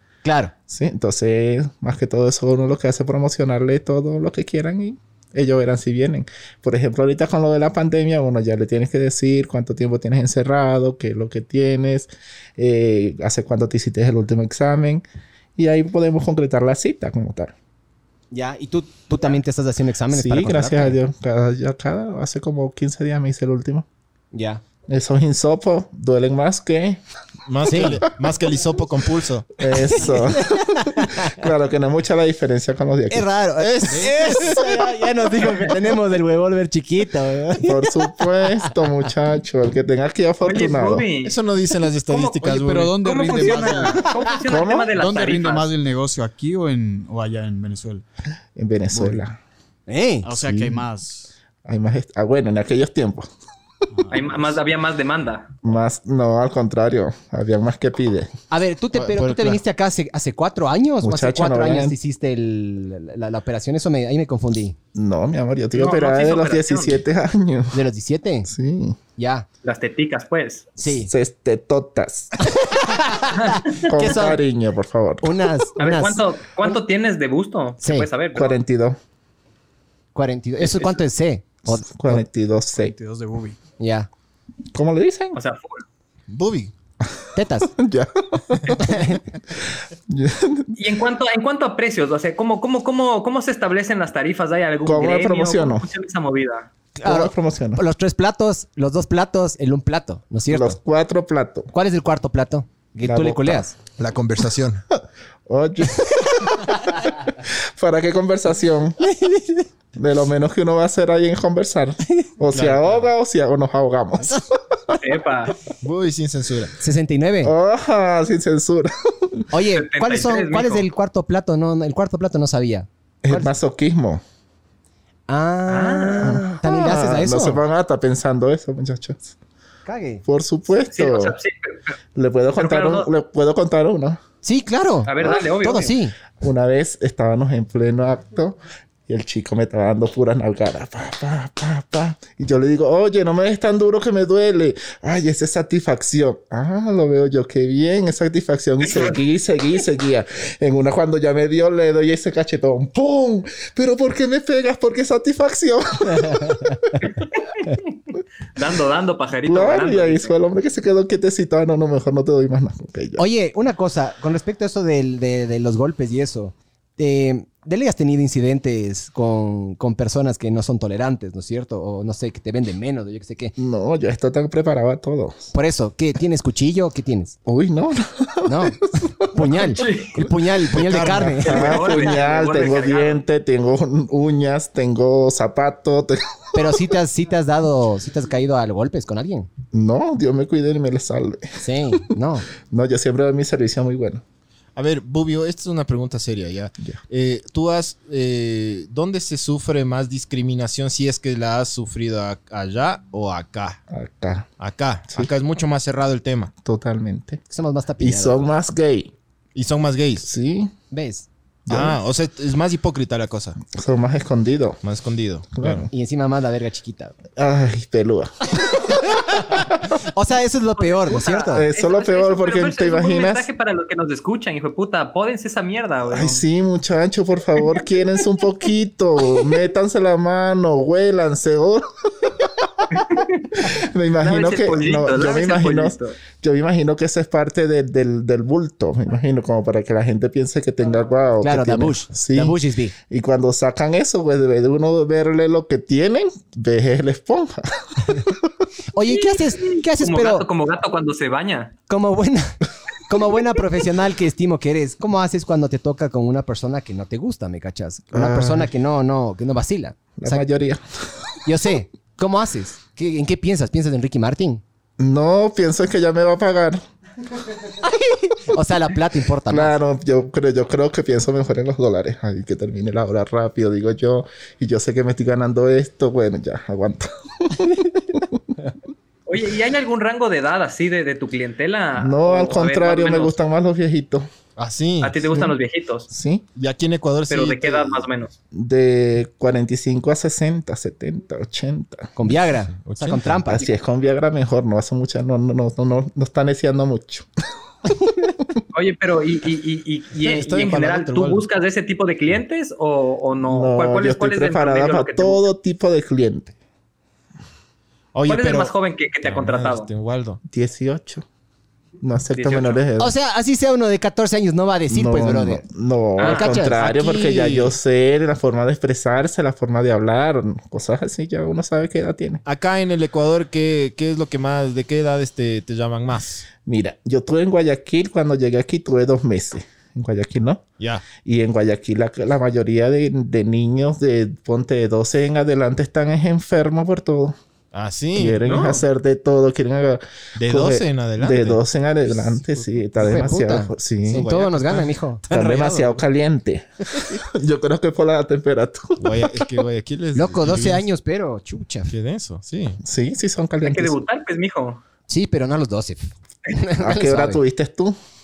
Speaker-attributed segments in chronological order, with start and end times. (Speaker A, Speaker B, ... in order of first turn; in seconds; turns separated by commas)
Speaker A: 0.2-0.5, Speaker B: 0.7-15.0, Speaker B: 15.6-17.5, Speaker A: 18.3-21.0, Speaker B: 20.1-23.9, Speaker A: 24.3-24.6, Speaker B: 24.9-27.0, Speaker C: 27.5-29.5, Speaker A: 27.7-28.0, Speaker B: 29.6-33.3, Speaker A: 29.9-31.3, Speaker A: 33.1-38.7, Speaker C: 33.6-34.7, Speaker B: 37.6-41.0, Speaker D: 40.4-41.4, Speaker C: 41.2-42.9, Speaker D: 42.0-45.7, Speaker E: 42.4-44.4, Speaker B: 44.5-44.9, Speaker E: 44.9-48.0, Speaker B: 48.5-49.4, Speaker A: 49.9-50.3, Speaker E: 50.2-51.3, Speaker B: 50.3-50.9, Speaker B: 51.6-53.3, Speaker E: 53.9-54.5, Speaker D: 54.1-55.5, Speaker B: 55.6-58.3, Speaker A: 58.5-64.8, Speaker C: 58.9-59.6, Speaker B: 61.0-62.0, Speaker B: 64.9-67.8, Speaker D: 65.7-67.0, Speaker A: 67.7-68.5, Speaker B: 68.5-69.0, Speaker A: 69.2-69.5, Speaker D: 69.6-70.7, Speaker A: 70.8-71.1, Speaker B: 70.8-72.3, Speaker A: 72.5-74.4, Speaker D: 73.4-73.8, Speaker B: 73.8-75.3, Speaker A: 75.2-76.2, Speaker D: 75.8-78.6, Speaker A: 77.8-78.1, Speaker B: 78.3-79.0, Speaker A: 80.1-82.2, Speaker B: 81.7-83.0, Speaker E: 82.7-83.6, Speaker A: 83.8-84.1, Speaker B: 84.7-85.4, Speaker D: 85.3-85.8, Speaker C: 86.3-86.7, Speaker A: 87.3-87.7, Speaker B: 87.7-89.2, Speaker A: 88.7-89.2, Speaker B: 90.1-90.7, Speaker D: 90.7-96.7, Speaker B: 94.8-95.9, Speaker A: 97.0-100.8, Speaker B: 97.0-97.8, Speaker B: 100.5-101.7, Speaker A: 101.7-103.7, Speaker B: 103.0-103.7, Speaker C: 104.0-104.8, Speaker B: 105.5-109.0, Speaker B: 110.0-114.4, Speaker C: 112.5-113.0, Speaker D: 114.9-115.6, Speaker C: 115.8-116.7, Speaker A: 116.8-117.5, Speaker B: 117.4-119.4, Speaker A: 119.5-123.5, Speaker D: 119.8-120.8, Speaker B: 123.2-124.2, Speaker A: 125.3-127.6, Speaker D: 125.7-126.4, Speaker B: 126.2-129.3, Speaker A: 129.8-130.2, Speaker B: 130.2-131.3, Speaker D: 130.9-131.9, Speaker B: 132.1-134.2, Speaker D: 132.6-133.1, Speaker A: 134.4-136.1, Speaker D: 135.1-135.9, Speaker B: 136.4-156.9, Speaker D: 148.8-149.2, Speaker A: 156.2-156.8, Speaker D: 157.1-157.8, Speaker D: 158.6-160.3, Speaker B: 159.4-163.2, Speaker A: 163.2-173.6, Speaker B: 173.6-175.5, Speaker A: 175.5-177.3, Speaker B: 177.4-179.7, Speaker A: 178.4-181.8, Speaker D: 179.6-180.2, Speaker B: 180.7-186.8, Speaker C: 180.8-181.4, Speaker D: 181.4-183.2, Speaker A: 186.5-189.5, Speaker B: 189.7-192.0, Speaker A: 191.6-192.5, Speaker B: 192.7-194.2, Speaker C: 194.8-203.8, Speaker B: 203.9-204.5, Speaker C: 204.6-206.5, Speaker B: 206.6-207.4, Speaker A: 207.5-208.5, Speaker B: 208.0-209.1, Speaker C: 209.5-210.2, Speaker B: 210.2-210.7, Speaker A: 210.9-211.3, Speaker B: 211.7-212.0, Speaker C: 211.7-213.6, Speaker B: 213.6-214.8, Speaker C: 214.8-215.9, Speaker B: 215.5-215.9, Speaker A: 215.9-217.1, Speaker B: 217.3-219.8, Speaker A: 220.1-221.6, Speaker D: 220.8-226.4, Speaker B: 221.5-223.5, Speaker B: 226.1-232.7, Speaker D: 232.9-233.7, Speaker B: 233.6-242.6, Speaker D: 234.2-236.2, Speaker A: 241.4-242.9, Speaker B: 243.1-248.5, Speaker A: 248.9-250.4, Speaker D: 249.1-251.7, Speaker A: 251.9-260.4, Speaker B: 258.1-258.7, Speaker B: 260.2-260.8, Speaker A: 261.4-264.6, Speaker B: 265.0-266.8, Speaker A: 267.8-269.7, Speaker B: 269.5-278.4, Speaker D: 279.3-283.3, Speaker B: 281.9-284.3, Speaker C: 284.6-285.2, Speaker D: 285.0-286.1, Speaker B: 286.1-286.4, Speaker C: 286.5-288.1, Speaker D: 287.3-288.3, Speaker B: 288.5-292.1, Speaker A: 292.1-293.7, Speaker C: 292.7-293.4, Speaker B: 293.5-297.3, Speaker D: 298.7-305.4, Speaker C: 300.2-301.4, Speaker B: 303.4-306.5, Speaker C: 308.1-308.7, Speaker D: 308.3-309.9, Speaker C: 309.2-310.4, Speaker B: 310.5-311.2, Speaker B: 312.0-313.1, Speaker D: 312.3-312.8, Speaker A: 313.0-315.6, Speaker B: 314.9-322.4, Speaker D: 316.2-316.5, Speaker A: 316.2-317.7, Speaker C: 322.4-326.5, Speaker B: 326.6-337.4, Speaker C: 330.8-331.1, Speaker C: 337.7-338.4, Speaker B: 338.1-344.3, Speaker D: 338.4-338.9, Speaker C: 340.4-343.1, Speaker A: 343.0-345.3, Speaker C: 344.1-346.0, Speaker B: 345.3-349.5, Speaker C: 349.0-350.9, Speaker A: 350.1-351.9, Speaker C: 351.9-352.8, Speaker B: 352.8-354.0, Speaker D: 353.6-354.8, Speaker A: 355.1-357.4, Speaker B: 356.8-358.0